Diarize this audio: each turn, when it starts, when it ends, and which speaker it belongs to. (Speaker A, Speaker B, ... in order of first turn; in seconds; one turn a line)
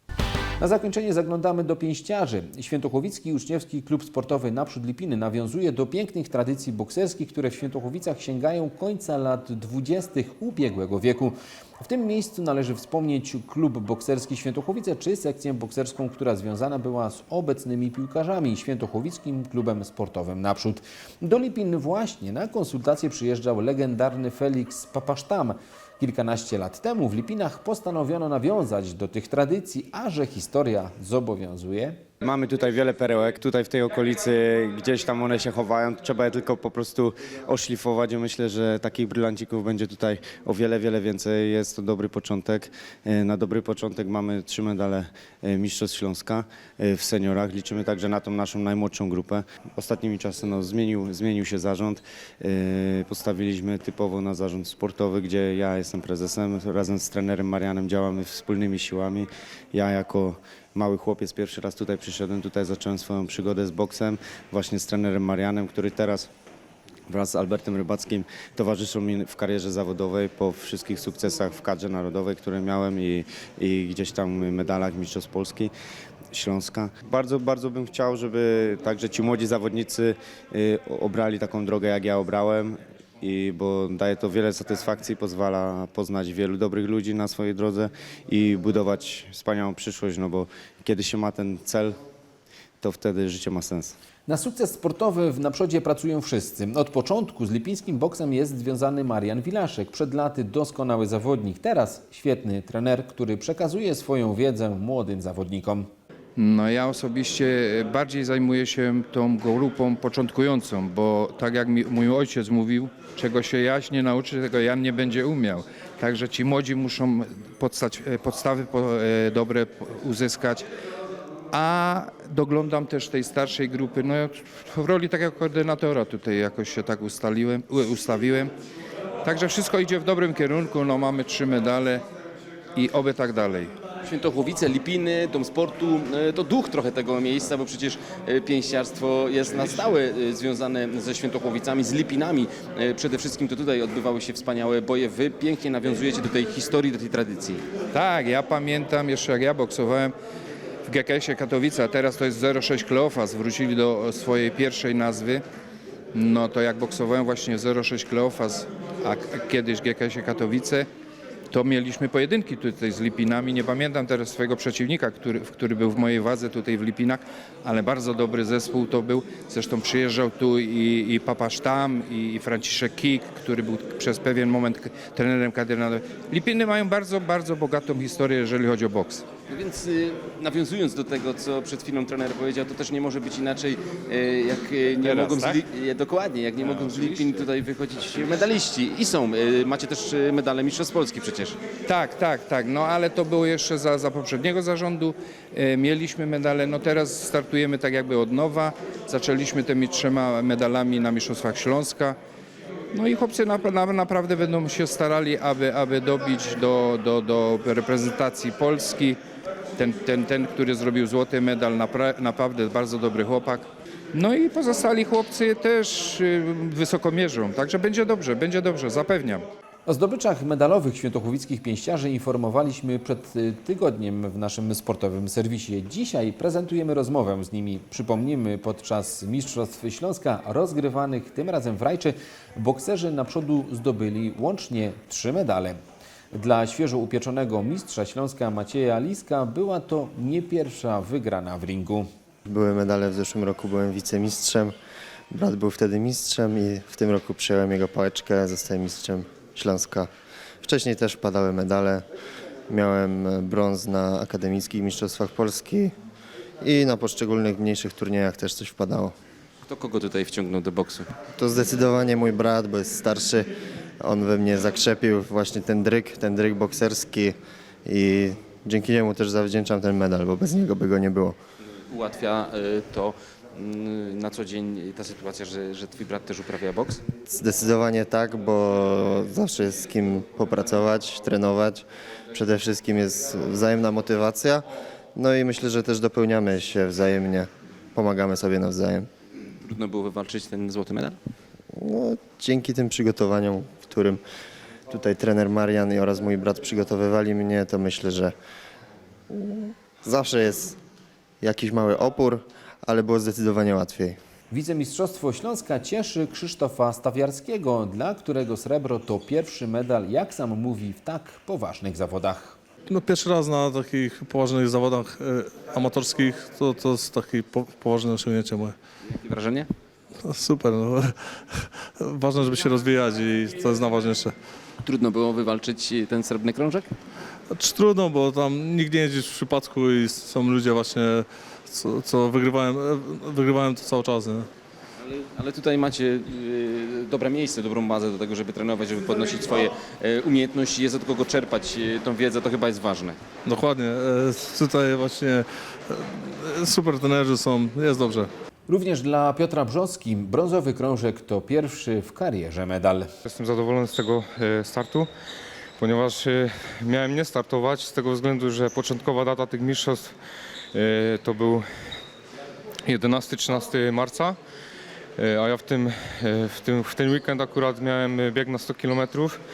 Speaker A: 0.6-32.0
Speaker B: 32.2-66.3
Speaker B: 67.1-75.7
Speaker B: 76.3-92.0
Speaker B: 92.8-94.0
Speaker A: 94.3-105.9
Speaker C: 106.4-120.7
Speaker C: 121.5-128.5
Speaker C: 129.2-132.0
Speaker C: 132.8-133.7
Speaker D: 134.0-147.6
Speaker C: 147.9-150.1
Speaker C: 150.8-155.4
Speaker C: 156.1-160.9
Speaker C: 161.5-179.2
Speaker D: 179.5-191.6
Speaker C: 185.0-185.6
Speaker C: 186.6-187.5
Speaker C: 191.8-202.2
Speaker C: 202.9-209.2
Speaker C: 209.8-219.4
Speaker A: 219.9-235.8
Speaker A: 236.3-242.1
Speaker E: 242.5-244.7
Speaker E: 245.3-250.1
Speaker E: 250.6-252.0
Speaker E: 252.7-255.9
Speaker E: 256.6-259.1
Speaker D: 259.7-261.1
Speaker E: 261.4-263.5
Speaker E: 264.0-271.4
Speaker D: 271.9-277.0
Speaker E: 277.3-284.6
Speaker E: 285.2-289.1
Speaker D: 289.6-291.2
Speaker E: 291.7-294.2
Speaker E: 294.9-298.3
Speaker E: 299.3-300.8
Speaker E: 301.4-304.2
Speaker A: 304.5-312.6
Speaker F: 312.9-313.4
Speaker F: 315.9-316.5
Speaker F: 317.0-317.5
Speaker D: 319.1-319.7
Speaker D: 324.8-326.9
Speaker F: 327.7-328.7
Speaker F: 329.3-330.3
Speaker D: 335.0-343.2
Speaker A: 348.7-353.1
Speaker G: 353.3-355.1
Speaker G: 355.8-360.0
Speaker G: 360.8-361.6
Speaker G: 362.9-364.3
Speaker G: 365.2-369.3